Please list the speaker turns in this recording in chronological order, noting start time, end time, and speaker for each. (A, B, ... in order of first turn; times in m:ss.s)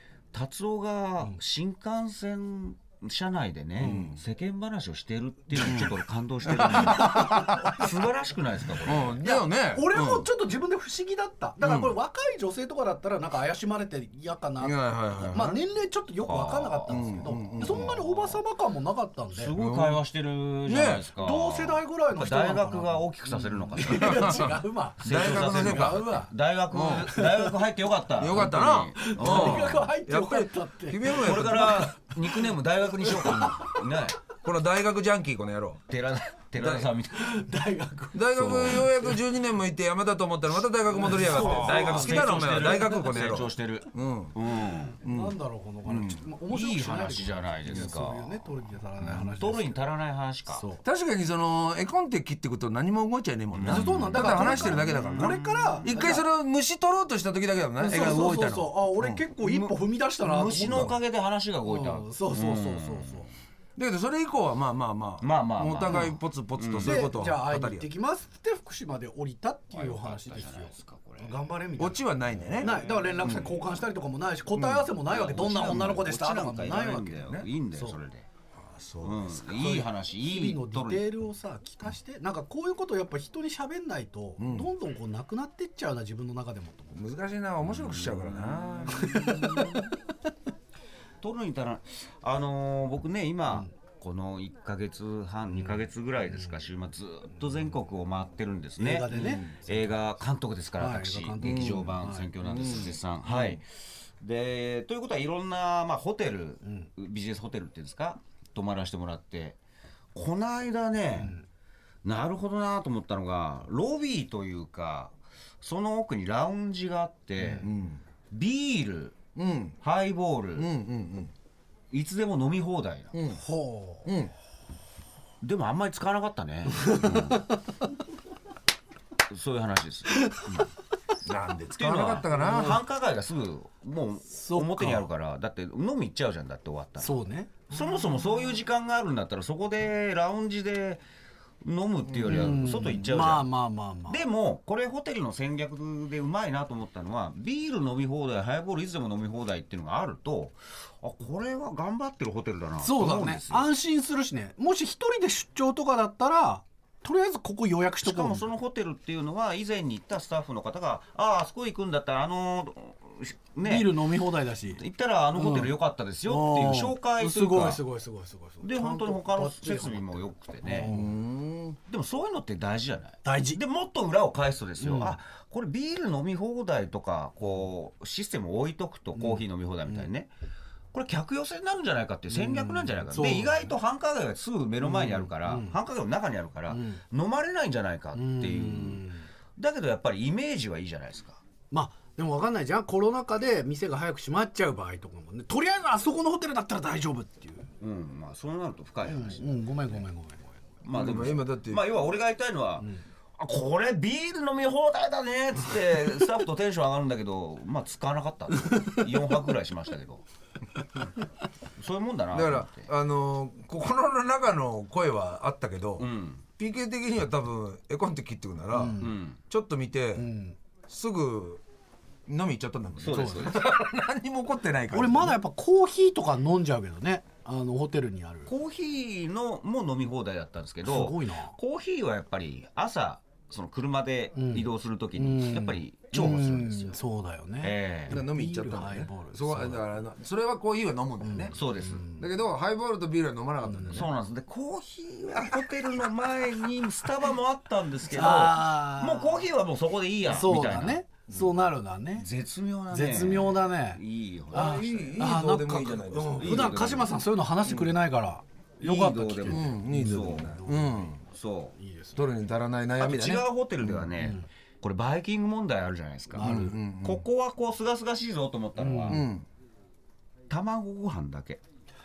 0:00.3-0:09.2 A
0:03.8-0:04.2 B
0:05.6-0:05.9 B
0:06.4-0:07.9 B
0:06.8-0:07.8 C
0:08.8-0:10.3 B
0:09.2-0:19.5 C
0:11.6-0:12.0 B
0:14.6-0:15.6 B
0:16.3-0:18.4 A
0:16.9-0:17.9 B
0:19.3-0:24.4 A
0:19.6-0:20.0 B
0:20.7-0:21.0 B
0:21.2-0:26.3 C
0:23.9-0:26.1 B
0:25.0-0:29.9 A
0:26.7-0:27.1 B
0:27.0-0:27.5 C
0:28.2-0:32.0 B
0:28.4-0:32.5 C
0:31.1-0:34.2 A
0:33.0-0:33.8 C
0:34.4-0:35.8 B
0:35.9-0:37.4 A
0:36.6-0:36.9 B
0:37.1-0:38.9 C
0:38.1-0:44.4 B
0:38.4-0:39.0 A
0:40.9-0:43.0 C
0:41.1-0:45.0 A
0:45.0-0:49.8 C
0:45.0-0:46.2 B
0:46.5-0:48.4 A
0:49.0-0:50.6 A
0:50.5-0:50.8 C
0:50.8-0:59.2 B
0:53.5-0:55.9 A
0:53.6-0:56.2 C
0:57.8-1:01.0 C
0:59.4-1:03.3 A
1:01.6-1:03.3 C
1:03.8-1:07.9 B
1:05.2-1:07.0 A
1:06.8-1:12.0 C
1:09.7-1:11.4 A
1:11.8-1:13.5 B
1:12.6-1:18.0 C
1:12.6-1:13.4 A
1:14.5-1:14.9 B
1:15.1-1:18.3 A
1:18.6-1:19.3 B
1:19.0-1:21.1 A
1:19.4-1:27.0 C
1:24.4-1:24.7 B
1:26.9-1:29.6 B
1:27.6-1:29.9 A
1:29.0-1:29.9 C
1:31.2-1:49.6 A
1:38.8-1:40.1 C
1:39.1-1:39.6 B
1:40.8-1:42.8 C
1:41.4-1:41.9 B
1:42.4-1:43.6 B
1:46.6-1:46.9 C
1:50.1-1:51.4 A
1:51.2-1:51.5 C
1:52.0-1:57.7 A
1:57.6-1:58.0 B
1:58.3-1:59.2 A
1:59.4-1:59.8 B
1:59.8-2:00.7 A
2:00.6-2:01.3 B
2:01.9-2:03.1 A
2:03.1-2:03.4 B
2:03.3-2:04.1 C
2:04.0-2:04.3 B
2:05.4-2:07.5 A
2:06.8-2:07.6 C
2:09.3-2:10.7 A
2:11.2-2:12.8 B
2:11.8-2:21.0 A
2:14.3-2:15.1 C
2:17.0-2:18.1 C
2:21.6-2:23.5 A
2:22.1-2:22.4 B
2:22.2-2:24.2 C
2:24.1-2:33.7 A
2:32.8-2:38.5 C
2:38.0-2:44.0 A
2:43.6-2:44.8 C
2:44.7-2:47.8 A
2:45.4-2:51.1 C
2:48.6-2:50.9 A
2:50.8-2:51.8 B
2:51.9-3:00.3 A
2:53.2-2:53.6 C
2:54.8-2:55.2 C
2:59.2-3:00.1 C
3:00.9-3:11.4 A
3:02.3-3:03.7 C
3:04.8-3:05.8 C
3:06.7-3:07.0 C
3:08.2-3:09.3 C
3:11.7-3:17.7 C
3:17.8-3:19.7 A
3:19.0-3:20.6 C
3:20.8-3:30.2 A
3:20.9-3:21.8 B
3:28.7-3:29.0 C
3:31.8-3:32.9 A
3:32.3-3:40.3 B
3:36.0-3:36.4 A
3:38.7-3:39.1 C
3:39.0-3:39.4 A
3:40.2-3:40.6 C
3:40.9-3:41.6 B
3:42.3-3:45.4 B
3:43.0-3:43.6 A
3:43.1-3:43.6 C
3:44.9-3:48.5 C
3:48.5-3:57.0 A
3:50.8-3:51.6 C
3:54.4-3:59.8 C
3:57.6-3:58.2 A
3:58.1-4:01.6 B
4:01.2-4:02.3 C
4:01.5-4:02.0 A
4:02.2-4:04.1 B
4:03.6-4:04.1 C
4:03.9-4:11.0 A
4:08.1-4:09.5 C
4:10.3-4:12.3 C
4:12.2-4:15.1 A
4:12.9-4:14.0 C
4:14.5-4:16.9 B
4:14.5-4:21.2 C
4:16.4-4:17.1 A
4:18.8-4:20.6 A
4:19.5-4:21.2 B
4:21.2-4:21.8 A
4:21.8-4:22.3 C
4:22.2-4:23.4 B
4:23.0-4:29.2 A
4:24.2-4:24.5 C
4:26.3-4:26.8 C
4:26.4-4:27.3 B
4:28.8-4:29.2 C
4:29.1-4:29.5 B
4:30.5-4:31.6 A